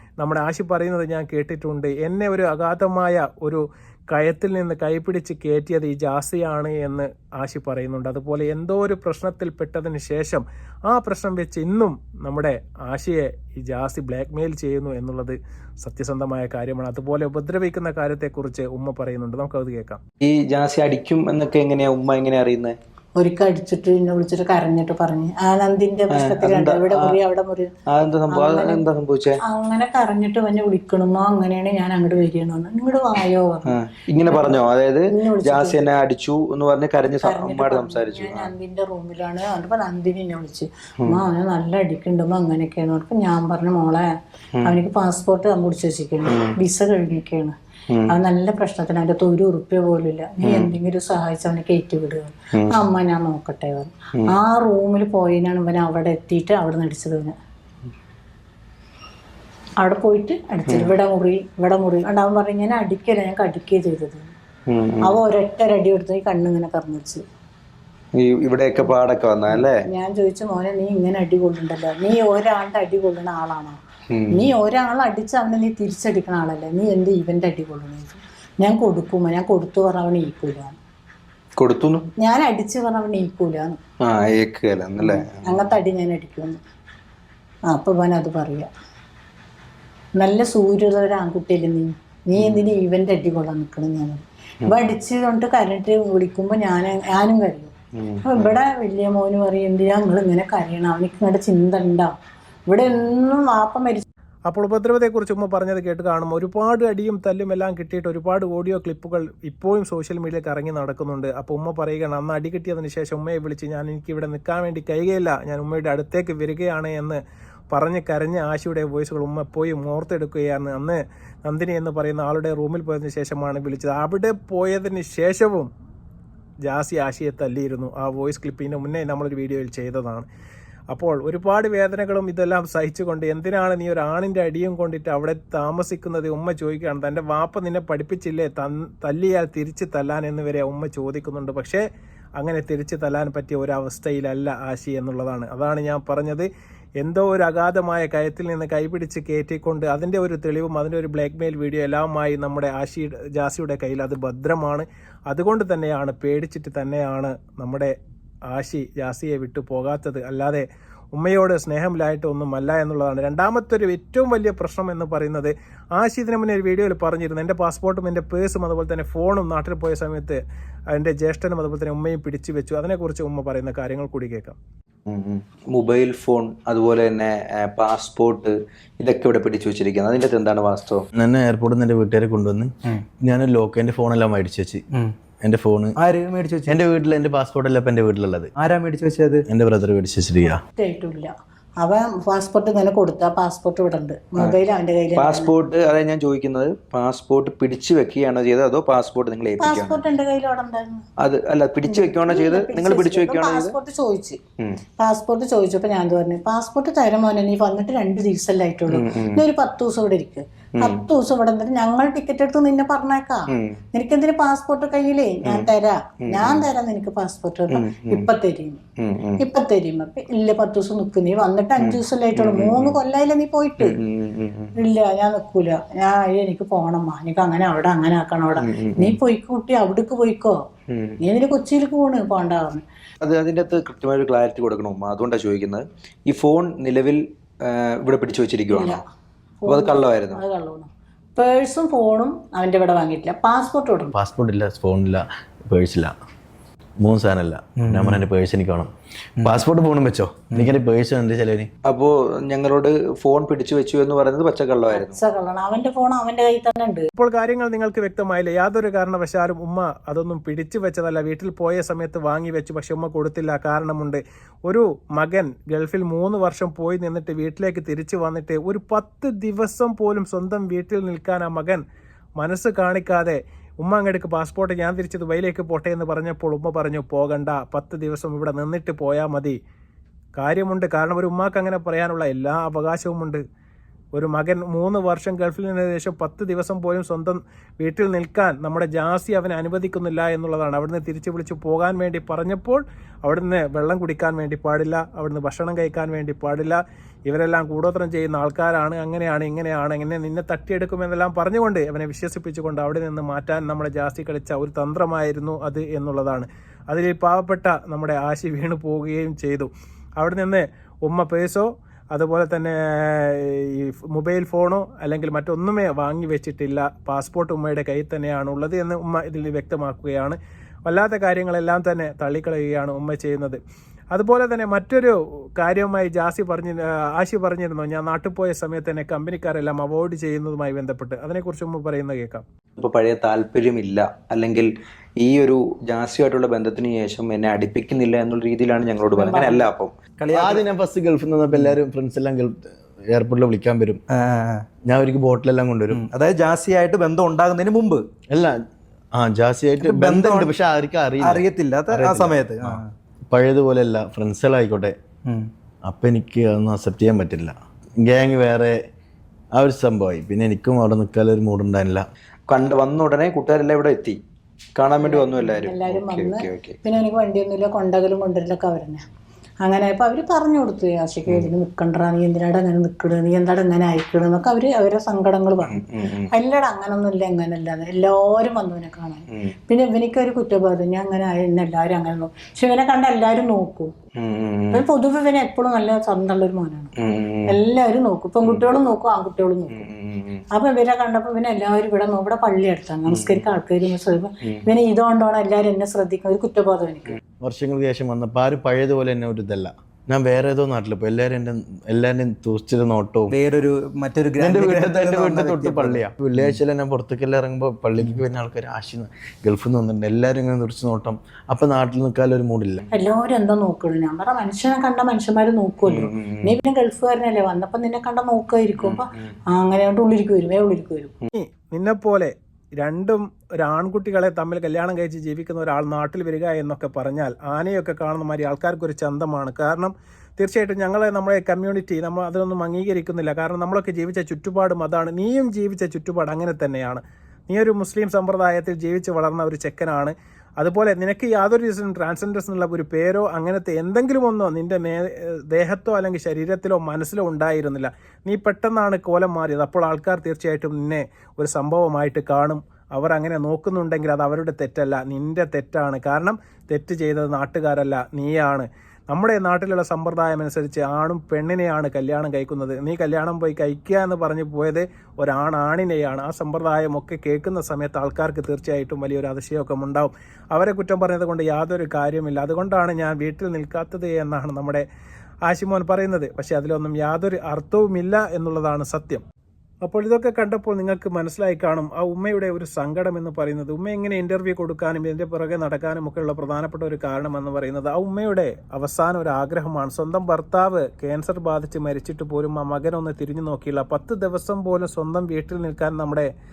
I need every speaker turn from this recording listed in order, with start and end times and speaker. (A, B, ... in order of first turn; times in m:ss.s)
0:00.2-0:20.0 A
0:20.2-0:22.8 B
0:23.2-0:27.7 C
0:26.1-0:27.2 B
0:27.9-0:29.4 B
0:28.3-0:28.8 C
0:29.4-0:33.8 C
0:33.7-0:38.5 B
0:35.1-0:35.8 C
0:37.2-0:44.1 C
0:44.6-0:47.5 C
0:48.1-0:57.3 C
0:50.4-0:50.7 B
0:52.5-0:52.8 B
0:59.8-1:04.2 C
1:04.7-1:05.1 B
1:05.0-1:07.2 C
1:08.1-1:09.7 B
1:09.5-1:13.8 C
1:14.1-1:14.5 B
1:14.3-1:20.8 C
1:21.6-1:22.0 B
1:22.2-1:23.8 C
1:24.0-1:25.8 B
1:25.0-1:26.6 C
1:27.7-1:28.7 C
1:30.2-1:37.7 C
1:32.4-1:32.7 B
1:38.0-1:38.5 B
1:38.2-1:42.1 C
1:42.7-1:44.0 C
1:44.5-1:57.2 A
1:57.7-2:05.7 A
2:06.6-2:10.3 A
2:10.9-2:21.8 A
2:22.4-2:26.5 A
2:27.0-2:37.9 A
2:38.5-2:50.4 A
2:50.9-2:54.6 A
2:55.1-3:01.0 B
3:01.2-3:02.7 D
3:03.2-3:04.8 D
3:05.4-3:05.9 D
3:06.0-3:06.8 E
3:06.7-3:08.5 D
3:08.6-3:09.4 E
3:09.5-3:10.6 D
3:10.8-3:15.5 C
3:15.2-3:20.1 B
3:19.6-3:21.0 C
3:21.2-3:23.7 B
3:21.8-3:24.4 C
3:25.0-3:38.8 C
3:28.9-3:29.4 B
3:30.8-3:31.0 B
3:33.5-3:33.8 B
3:35.4-3:35.7 B
3:36.2-3:36.6 B
3:37.7-3:38.3 B
3:39.0-3:39.4 B
3:39.4-3:43.9 C
3:41.8-3:43.0 B
3:43.8-3:44.7 B
3:44.8-3:50.6 C
3:48.6-3:49.2 B
3:50.9-3:51.2 B
3:51.2-3:52.8 C
3:53.2-3:59.0 B
3:58.7-3:59.0 C
3:59.6-4:04.1 C
3:59.7-4:00.4 B
4:04.1-4:06.1 D
4:07.0-4:08.9 D
4:07.8-4:08.2 E
4:09.4-4:11.7 D
4:11.8-4:15.2 B
4:14.9-4:17.1 C
4:17.1-4:31.8 A
4:32.4-4:39.6 A
4:40.4-4:43.4 A
4:44.1-5:23.6 A
5:24.1-5:32.4 A
5:32.8-5:40.0 B
5:39.2-5:39.6 E
5:40.2-5:40.6 E
5:40.3-5:44.0 D
5:44.1-5:44.6 E
5:44.9-5:46.1 D
5:45.9-5:48.0 E
5:48.3-5:48.6 D
5:49.1-5:54.9 D
5:49.8-5:50.5 E
5:51.2-5:52.9 E
5:55.8-5:58.8 D
5:59.5-6:02.0 D
6:02.5-6:04.2 B
6:04.8-6:06.8 B
6:05.0-6:09.0 C
6:09.6-6:15.8 C
6:15.6-6:16.3 B
6:16.3-6:23.9 C
6:24.2-6:24.8 B
6:24.7-6:26.9 C
6:27.0-6:27.5 B
6:27.5-6:29.9 C
6:29.7-6:30.4 B
6:30.5-6:37.2 C
6:33.1-6:33.4 B
6:37.4-6:43.4 D
6:43.3-6:46.0 E
6:44.4-6:52.8 D
6:52.9-7:01.1 C
6:55.9-6:56.6 B
6:58.8-6:59.3 B
7:01.3-7:54.8 A
7:55.5-7:59.2 A
7:59.8-8:16.3 A